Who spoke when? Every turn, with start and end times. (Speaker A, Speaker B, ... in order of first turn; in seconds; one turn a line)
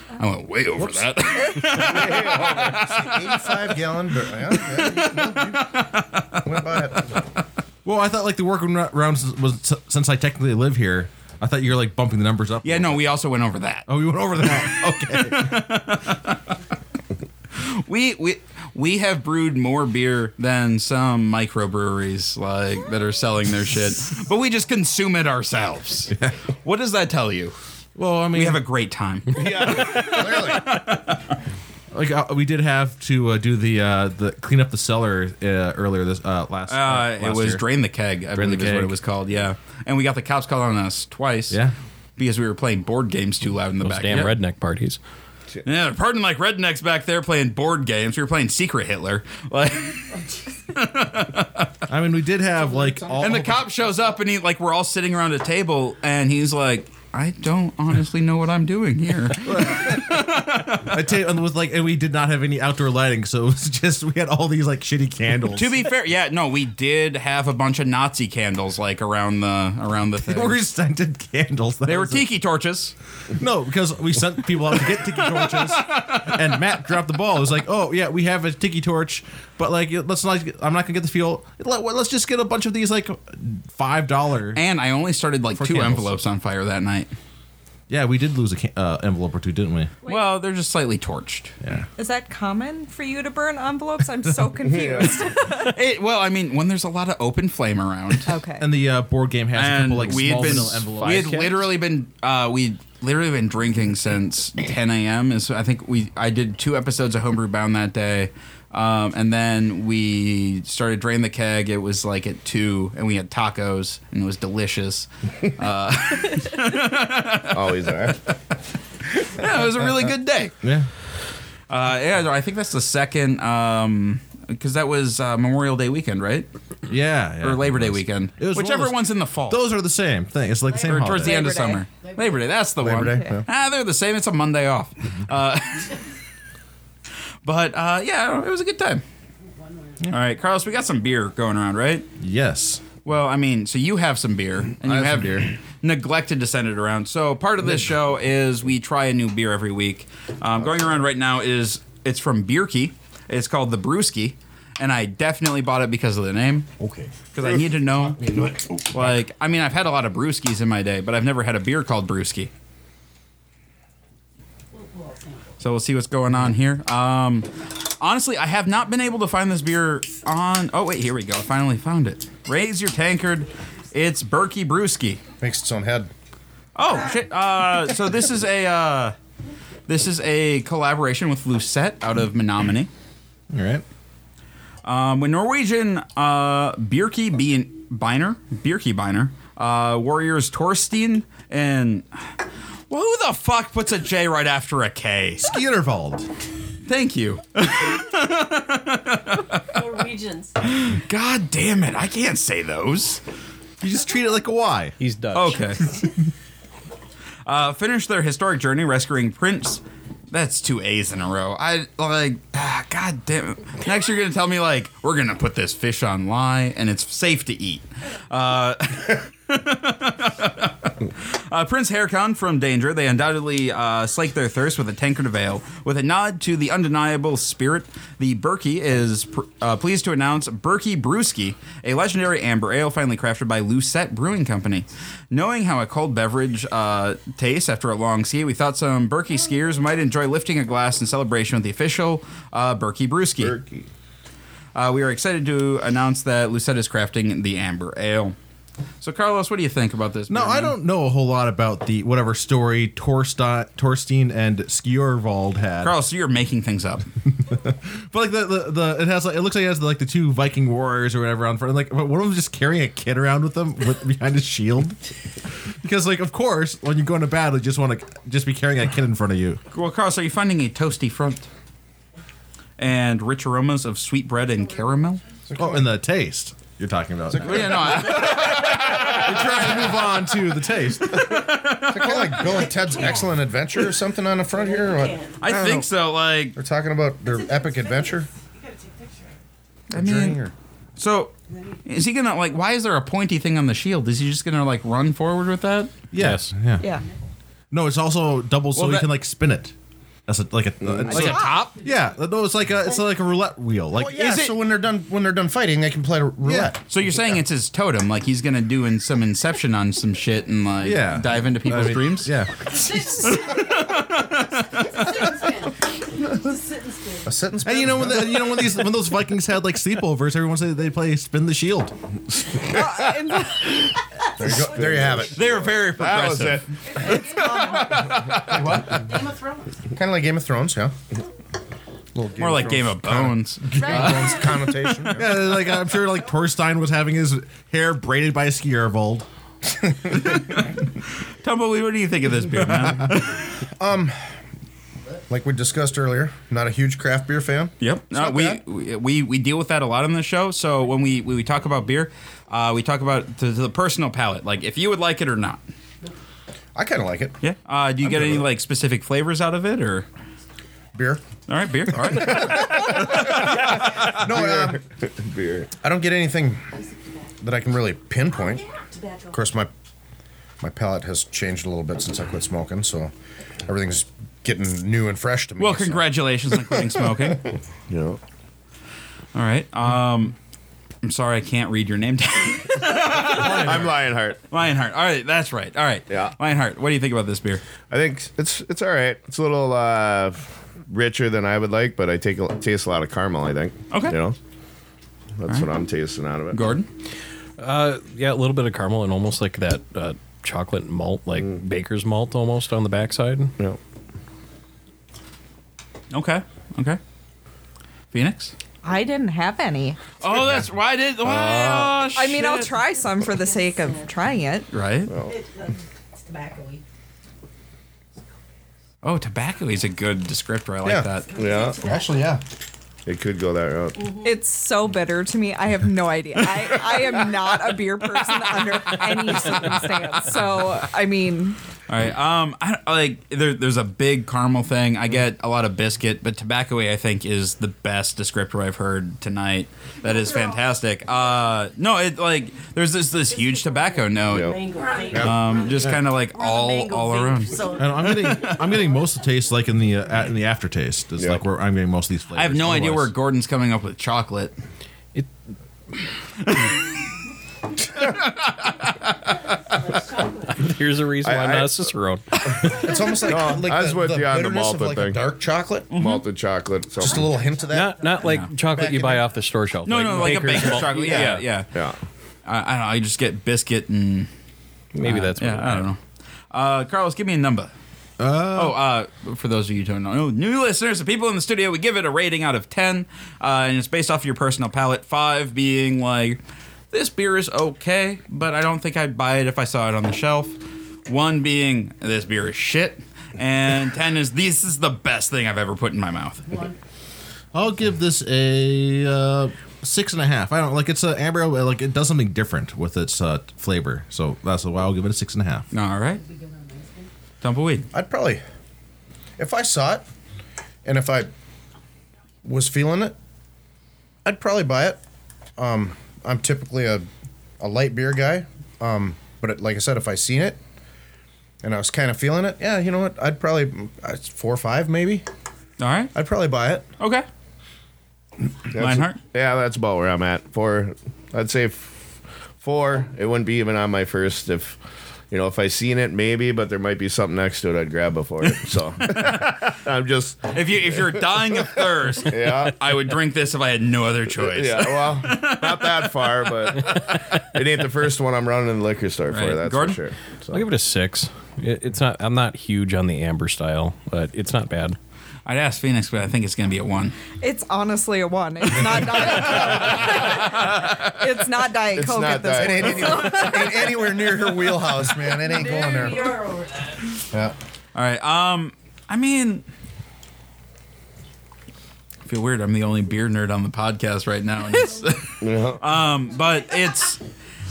Speaker A: 0.2-3.8
Speaker B: 1.9-5.7
Speaker A: 4.5-6.8
Speaker B: 6.4-7.1
Speaker C: 7.8-13.0
Speaker A: 12.6-13.9
Speaker C: 13.9-15.7
Speaker A: 14.4-16.5
Speaker A: 17.5-26.1
Speaker A: 26.6-27.6
Speaker C: 27.9-28.6
Speaker A: 28.3-31.3
Speaker B: 29.4-30.7
Speaker D: 29.4-30.1
Speaker C: 31.9-37.6
Speaker A: 36.7-41.6
Speaker C: 38.3-38.9
Speaker A: 42.2-44.3
Speaker E: 43.8-45.0
Speaker A: 45.6-50.1
Speaker A: 50.7-51.7
Speaker C: 51.9-53.7
Speaker A: 53.2-61.0
Speaker C: 59.4-60.1
Speaker C: 60.8-65.9
Speaker A: 65.5-70.6
Speaker C: 70.2-72.3
Speaker A: 71.8-72.9
Speaker C: 73.4-84.6
Speaker A: 74.7-76.6
Speaker A: 84.5-87.1
Speaker C: 85.6-86.1
Speaker C: 87.9-89.9
Speaker A: 90.0-91.5
Speaker C: 91.6-91.9
Speaker F: 92.0-95.8
Speaker D: 94.6-95.2
Speaker A: 95.6-98.3
Speaker F: 98.2-98.7
Speaker C: 98.6-101.6
Speaker A: 99.5-118.2
Speaker E: 100.1-101.5
Speaker D: 117.5-118.2
Speaker A: 119.2-120.5
Speaker C: 120.6-120.9
Speaker A: 121.7-126.5
Speaker C: 126.9-131.4
Speaker A: 127.4-129.6
Speaker A: 130.8-136.0
Speaker F: 131.1-131.9
Speaker B: 132.8-133.4
Speaker F: 132.9-133.4
Speaker A: 137.4-139.0
Speaker A: 140.1-142.1
Speaker C: 142.2-142.8
Speaker A: 143.0-156.7
Speaker C: 144.8-145.4
Speaker B: 156.8-157.1
Speaker A: 157.3-158.3
Speaker B: 158.2-158.9
Speaker A: 158.9-162.5
Speaker A: 165.6-175.2
Speaker B: 175.4-176.1
Speaker A: 176.8-179.2
Speaker A: 179.9-182.9
Speaker C: 183.5-183.8
Speaker A: 184.8-192.1
Speaker A: 192.9-195.4
Speaker C: 195.4-196.3
Speaker A: 196.8-199.7
Speaker G: 199.7-200.6
Speaker A: 200.6-203.2
Speaker C: 203.8-204.9
Speaker E: 205.0-205.7
Speaker A: 205.3-205.8
Speaker A: 207.4-243.6
Speaker D: 243.4-243.9
Speaker A: 244.8-248.4
Speaker A: 249.0-250.8
Speaker C: 250.3-255.9
Speaker A: 255.8-257.1
Speaker C: 257.4-265.0
Speaker C: 265.8-269.6
Speaker A: 269.7-271.5
Speaker A: 272.8-275.2
Speaker B: 275.5-275.9
Speaker C: 275.5-281.3
Speaker A: 277.4-279.9
Speaker B: 277.5-277.8
Speaker A: 281.0-282.7
Speaker B: 281.8-285.8
Speaker G: 282.8-283.1
Speaker G: 284.5-285.4
Speaker A: 285.4-286.6
Speaker B: 286.6-288.3
Speaker G: 288.6-289.1
Speaker A: 289.9-290.4
Speaker B: 289.9-290.5
Speaker A: 291.0-291.3
Speaker A: 291.9-295.9
Speaker C: 296.1-296.9
Speaker E: 296.1-296.5
Speaker F: 296.8-297.0
Speaker C: 297.7-299.7
Speaker A: 298.8-299.1
Speaker C: 300.3-304.3
Speaker F: 301.1-301.7
Speaker A: 301.1-301.7
Speaker B: 304.0-306.8
Speaker A: 304.1-304.6
Speaker C: 306.4-306.7
Speaker A: 306.9-312.3
Speaker C: 310.8-312.9
Speaker A: 313.0-315.4
Speaker G: 314.9-315.7
Speaker G: 316.4-317.2
Speaker B: 317.2-318.5
Speaker C: 317.6-321.9
Speaker F: 322.5-323.8
Speaker B: 324.3-325.4
Speaker D: 324.4-326.6
Speaker A: 325.3-328.9
Speaker F: 327.4-327.8
Speaker B: 328.1-329.2
Speaker B: 329.9-330.9
Speaker B: 332.1-335.4
Speaker A: 332.4-334.5
Speaker C: 335.1-339.3
Speaker A: 340.2-340.6
Speaker A: 341.4-343.4
Speaker B: 343.8-344.2
Speaker B: 345.3-348.6
Speaker A: 347.8-355.6
Speaker B: 356.8-357.4
Speaker A: 357.4-360.1
Speaker B: 360.9-361.2
Speaker A: 361.5-364.1
Speaker B: 362.8-364.8
Speaker D: 364.2-365.7
Speaker B: 365.8-366.6
Speaker G: 366.8-367.2
Speaker B: 367.4-368.6
Speaker G: 368.4-369.4
Speaker B: 369.3-369.7
Speaker B: 370.6-373.1
Speaker B: 373.7-376.1
Speaker A: 375.6-377.5
Speaker D: 377.9-378.2
Speaker A: 379.3-380.4
Speaker A: 381.0-383.9
Speaker C: 383.1-383.9
Speaker D: 383.4-384.4
Speaker A: 384.5-387.6
Speaker D: 386.1-386.4
Speaker D: 387.9-394.4
Speaker A: 393.9-394.2
Speaker D: 395.4-396.6
Speaker A: 396.5-396.9
Speaker E: 397.6-403.5
Speaker A: 406.1-407.0
Speaker A: 408.1-408.5
Speaker F: 408.8-410.0
Speaker A: 410.2-412.8
Speaker D: 411.2-412.1
Speaker F: 412.1-414.7
Speaker G: 413.4-414.2
Speaker A: 414.7-415.1
Speaker D: 415.1-415.4
Speaker G: 415.2-416.8
Speaker A: 419.0-421.3
Speaker G: 421.1-422.3
Speaker D: 421.4-421.8
Speaker B: 421.8-422.4
Speaker D: 423.1-424.0
Speaker G: 424.0-424.4
Speaker F: 424.2-431.6
Speaker A: 431.9-444.5
Speaker G: 443.3-448.5
Speaker D: 444.3-444.6
Speaker A: 445.1-448.6
Speaker C: 447.8-453.1
Speaker A: 452.3-454.5
Speaker A: 456.5-456.8
Speaker A: 458.2-458.8
Speaker G: 459.8-460.7
Speaker E: 460.6-462.9
Speaker D: 461.2-461.9
Speaker B: 462.6-465.9
Speaker D: 463.2-465.2
Speaker A: 465.9-466.2
Speaker D: 465.9-467.4
Speaker B: 467.0-468.0
Speaker G: 467.1-468.2
Speaker E: 467.7-471.5
Speaker A: 468.2-468.5
Speaker B: 468.5-469.2
Speaker A: 469.8-471.7
Speaker D: 470.5-472.0
Speaker A: 472.4-474.3
Speaker E: 474.9-475.9
Speaker A: 475.0-476.0
Speaker A: 476.5-477.7
Speaker C: 478.2-478.8
Speaker A: 478.5-486.4
Speaker A: 486.9-496.6
Speaker C: 497.5-505.6
Speaker A: 505.7-506.2
Speaker A: 507.4-507.9
Speaker B: 507.9-508.4
Speaker B: 509.4-510.1
Speaker B: 510.9-511.3
Speaker B: 512.4-513.1
Speaker B: 514.2-515.0
Speaker B: 515.6-517.1
Speaker B: 517.6-520.6
Speaker B: 521.6-525.2
Speaker A: 525.8-526.1
Speaker B: 526.1-526.8
Speaker A: 527.0-527.2
Speaker D: 528.7-531.9
Speaker A: 528.8-529.2
Speaker D: 532.6-534.8
Speaker D: 535.3-541.3
Speaker A: 539.0-539.7
Speaker A: 540.5-547.2
Speaker D: 542.2-542.7
Speaker D: 544.4-550.6
Speaker A: 549.3-550.0
Speaker E: 550.5-555.0
Speaker A: 555.5-557.2
Speaker F: 557.4-564.0
Speaker A: 559.3-560.3
Speaker D: 561.9-563.7
Speaker B: 562.5-566.4
Speaker G: 565.5-566.9
Speaker A: 567.9-569.6
Speaker A: 572.2-577.2
Speaker D: 575.4-575.8